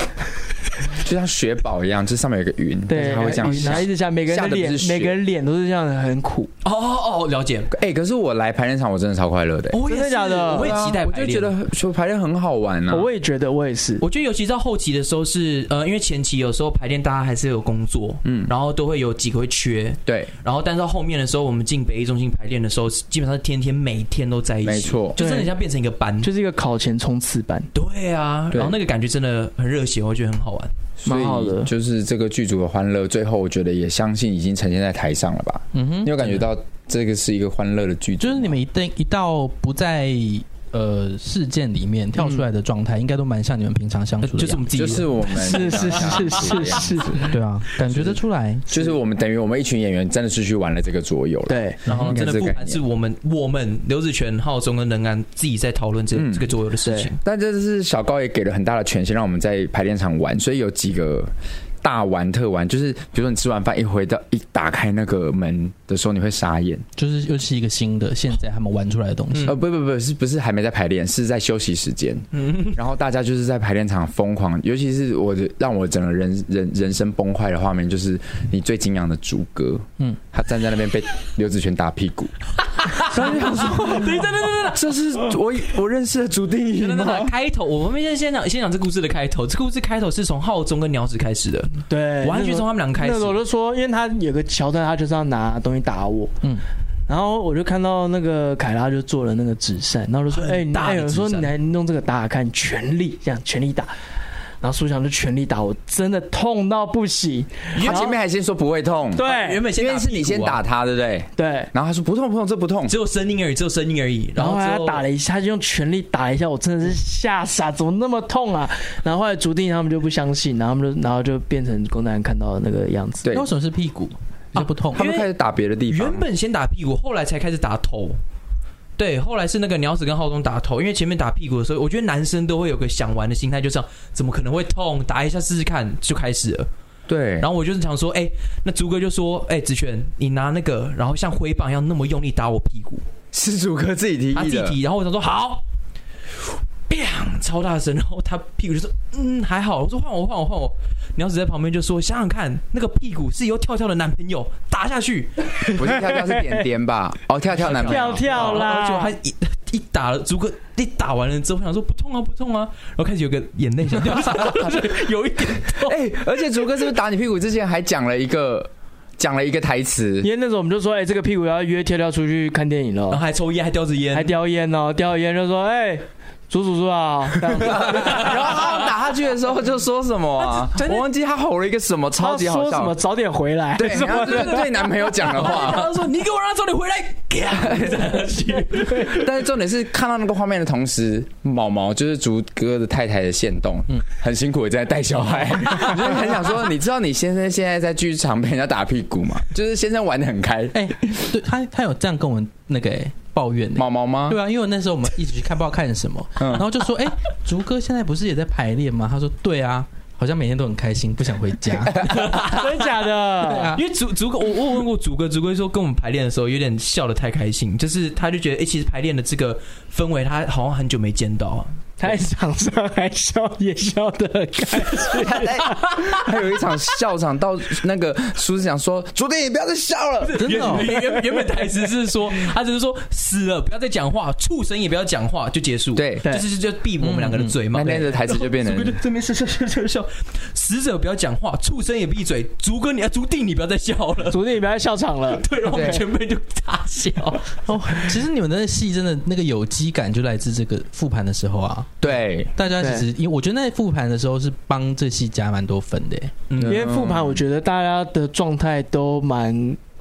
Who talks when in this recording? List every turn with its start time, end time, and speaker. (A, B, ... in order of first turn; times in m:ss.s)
0:00.9-0:05.2 A
0:02.9-0:06.5 B
0:03.6-0:03.8 C
0:06.6-0:07.7 C
0:07.7-0:09.8 A
0:09.7-0:11.5 C
0:09.9-0:10.8 B
0:10.5-0:13.1 A
0:12.9-0:14.0 B
0:14.0-0:26.3 C
0:18.2-0:18.5 A
0:20.1-0:20.3 A
0:24.6-0:25.2 A
0:25.2-0:25.5 B
0:26.2-0:27.7 B
0:27.7-0:30.7 C
0:28.5-0:28.8 A
0:31.0-0:38.6 A
0:31.0-0:31.7 B
0:35.7-0:36.4 D
0:38.2-0:44.9 D
0:42.2-0:42.5 B
0:44.2-0:46.2 C
0:44.7-0:47.2 A
0:45.3-0:47.3 B
0:47.3-0:48.7 D
0:47.8-0:52.8 A
0:51.5-0:51.8 B
0:51.9-0:57.2 C
0:51.9-0:52.2 D
0:56.1-0:56.5 A
0:56.8-0:57.1 B
0:57.2-1:01.3 A
1:01.8-1:06.8 A
1:07.0-1:09.6 D
1:09.3-1:09.6 C
1:09.4-1:22.3 A
1:12.3-1:12.8 C
1:22.6-1:25.2 C
1:23.0-1:27.3 A
1:23.5-1:24.0 B
1:26.8-1:33.4 C
1:31.8-1:36.4 B
1:37.1-1:43.9 B
1:40.3-1:41.5 C
1:44.6-1:48.2 B
1:47.8-1:48.0 C
1:47.8-1:53.0 A
1:49.2-1:49.6 B
1:49.2-1:50.6 C
1:51.4-1:51.7 B
1:52.9-1:55.0 C
1:54.4-2:03.3 B
2:03.2-2:03.5 A
2:03.3-2:05.0 D
2:04.6-2:05.3 C
2:04.9-2:06.2 A
2:05.9-2:08.2 C
2:09.0-2:16.7 C
2:17.1-2:17.5 A
2:17.4-2:23.0 C
2:23.3-2:24.8 A
2:24.4-2:25.6 C
2:26.4-2:35.6 C
2:35.7-2:38.6 A
2:35.9-2:36.6 B
2:37.5-2:46.0 C
2:37.8-2:39.2 B
2:44.3-2:44.8 A
2:45.8-2:50.3 A
2:50.2-2:53.2 B
2:53.1-2:54.3 C
2:54.1-2:58.5 B
2:57.6-3:03.0 A
2:57.8-2:58.6 C
3:00.4-3:01.1 C
3:02.2-3:05.1 B
3:03.8-3:06.0 A
3:04.1-3:09.3 C
3:07.6-3:08.2 A
3:08.8-3:20.9 A
3:20.7-3:32.1 D
3:23.8-3:24.4 A
3:26.4-3:26.7 A
3:31.9-3:32.3 A
3:32.0-3:32.8 C
3:32.1-3:33.8 B
3:33.4-3:33.8 D
3:33.7-3:41.8 C
3:42.0-3:46.0 B
3:45.0-3:50.8 A
3:50.2-4:04.4 C
3:50.4-3:50.9 D
3:50.8-3:51.6 B
3:56.0-3:56.3 A
3:57.0-3:57.6 D
3:57.7-3:59.0 A
4:04.3-4:06.0 B
4:05.3-4:07.6 C
4:05.7-4:06.0 A
4:07.7-4:16.4 D
4:12.0-4:12.5 A
4:12.8-4:13.1 B
4:16.5-4:16.8 C
4:16.6-4:17.4 A
4:16.6-4:19.8 B